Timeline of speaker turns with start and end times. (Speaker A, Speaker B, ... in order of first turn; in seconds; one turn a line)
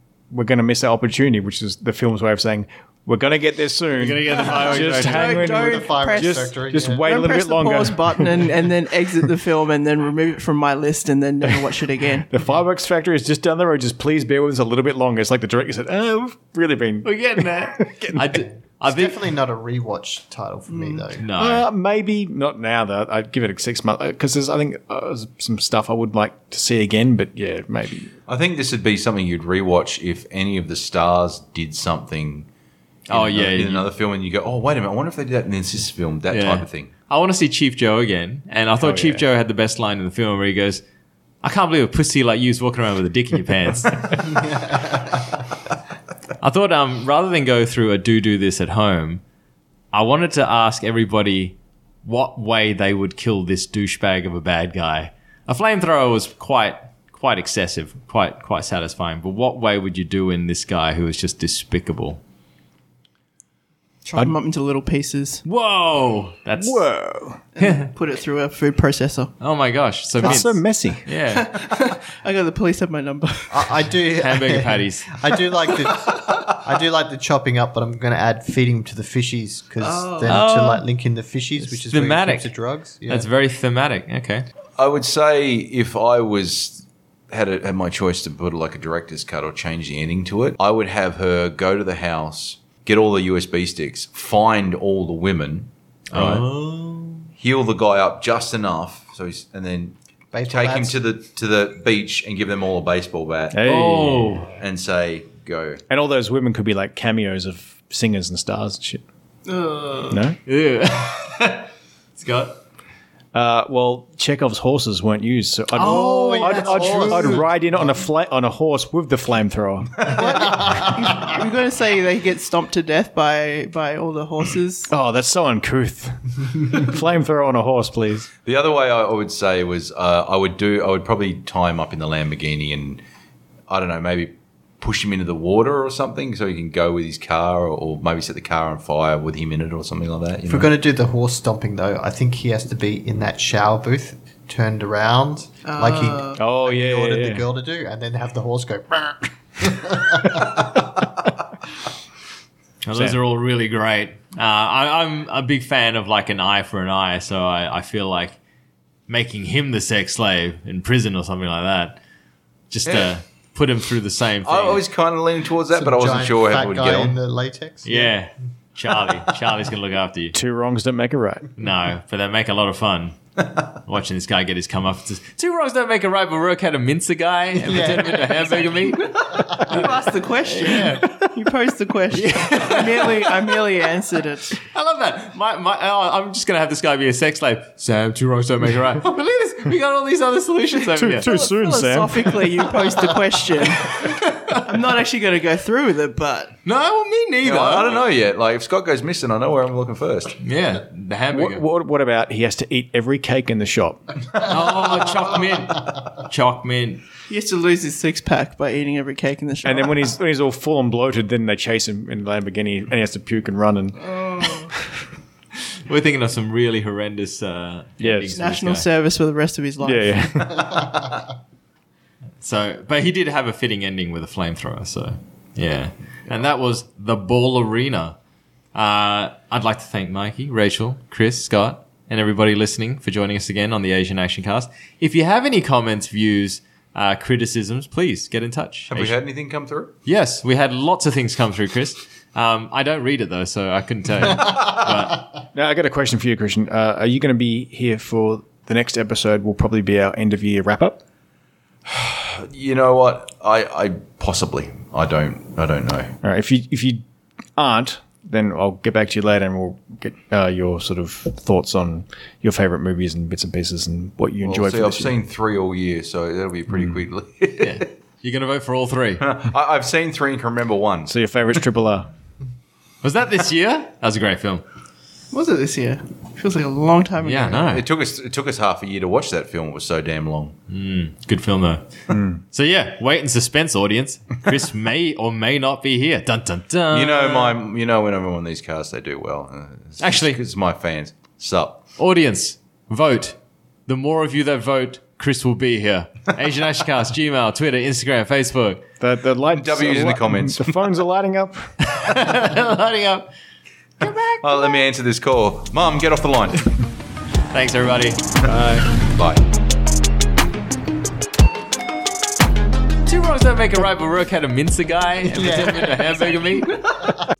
Speaker A: 0.3-8.5
Speaker B: 4.0-5.4
Speaker C: 4.4-12.3
Speaker D: 5.3-7.2
Speaker A: 11.4-11.7
Speaker A: 12.3-18.3
Speaker B: 17.0-19.2
Speaker D: 18.2-21.3
Speaker C: 20.7-21.1
Speaker B: 21.2-21.7
Speaker A: 21.4-28.1
Speaker E: 28.3-32.5
Speaker B: 33.1-33.9
Speaker E: 33.1-36.9
Speaker B: 36.3-40.8
Speaker A: 38.8-39.3
Speaker B: 41.4-44.2
Speaker D: 44.3-45.3
Speaker B: 46.4-49.2
Speaker B: 49.9-62.2
Speaker C: 64.1-65.4
Speaker B: 65.5-66.8
Speaker A: 66.6-67.4
Speaker C: 67.5-69.3
Speaker B: 67.6-67.9
Speaker B: 69.4-71.5
Speaker A: 70.2-71.1
Speaker C: 71.3-73.8
Speaker D: 73.5-83.3
Speaker B: 74.2-75.1
Speaker C: 79.8-80.5
Speaker B: 80.3-80.8
Speaker B: 81.6-82.5
Speaker B: 83.1-84.5
Speaker E: 84.8-96.5
Speaker B: 96.1-97.3
Speaker E: 97.4-100.0
Speaker D: 100.3-101.0
Speaker E: 100.5-103.6
Speaker A: 103.5-104.5
Speaker B: 103.6-104.5
Speaker E: 104.6-105.8
Speaker A: 105.9-109.0
Speaker C: 109.5-110.2
Speaker A: 110.1-110.4
Speaker B: 110.5-112.6
Speaker A: 113.3-120.2
Speaker B: 115.8-117.5
Speaker D: 115.8-118.0
Speaker D: 120.1-121.4
Speaker C: 120.1-124.9
Speaker A: 124.9-128.3
Speaker E: 128.4-133.0
Speaker E: 133.7-140.7
Speaker D: 140.5-151.3
Speaker C: 145.7-146.4
Speaker A: 146.4-147.4
Speaker B: 152.8-158.4
Speaker A: 152.9-153.2
Speaker B: 159.1-162.0
Speaker B: 162.7-164.8
Speaker E: 164.4-167.2
Speaker D: 165.7-168.2
Speaker B: 167.8-170.3
Speaker A: 170.3-171.5
Speaker B: 171.6-179.9
Speaker D: 177.6-180.0
Speaker C: 179.1-184.6
Speaker B: 180.4-181.1
Speaker B: 182.1-183.4
Speaker B: 184.6-191.3
Speaker A: 190.9-193.2
Speaker C: 191.2-196.6
Speaker B: 194.0-194.6
Speaker B: 196.7-198.0
Speaker E: 197.4-200.4
Speaker B: 200.4-201.6
Speaker A: 201.3-204.0
Speaker B: 204.4-207.0
Speaker C: 207.3-210.0
Speaker A: 209.6-215.0
Speaker C: 214.1-214.6
Speaker B: 215.9-218.9
Speaker A: 218.0-218.4
Speaker C: 218.3-220.3
Speaker A: 219.8-220.8
Speaker D: 220.6-221.2
Speaker B: 222.4-228.2
Speaker B: 228.7-239.1
Speaker E: 238.9-239.9
Speaker B: 240.1-245.2
Speaker A: 245.5-251.0
Speaker E: 251.9-256.1
Speaker A: 256.2-257.0
Speaker A: 257.6-265.1
Speaker E: 264.4-267.9
Speaker A: 266.7-267.0
Speaker B: 267.6-269.2
Speaker E: 269.2-271.1
Speaker A: 271.1-272.1
Speaker B: 273.0-274.6
Speaker C: 275.3-277.7
Speaker B: 277.2-277.9
Speaker E: 277.7-280.6
Speaker B: 280.7-281.9
Speaker A: 282.1-282.4
Speaker B: 282.5-287.6
Speaker E: 286.9-291.8
Speaker B: 290.0-290.4
Speaker B: 292.0-298.8
Speaker A: 299.0-301.8
Speaker E: 299.5-300.9
Speaker B: 301.9-303.3
Speaker B: 304.0-304.8
Speaker E: 304.4-306.7
Speaker B: 307.5-308.2
Speaker A: 308.5-308.9
Speaker E: 308.5-309.4
Speaker B: 313.1-316.8
Speaker D: 315.3-317.2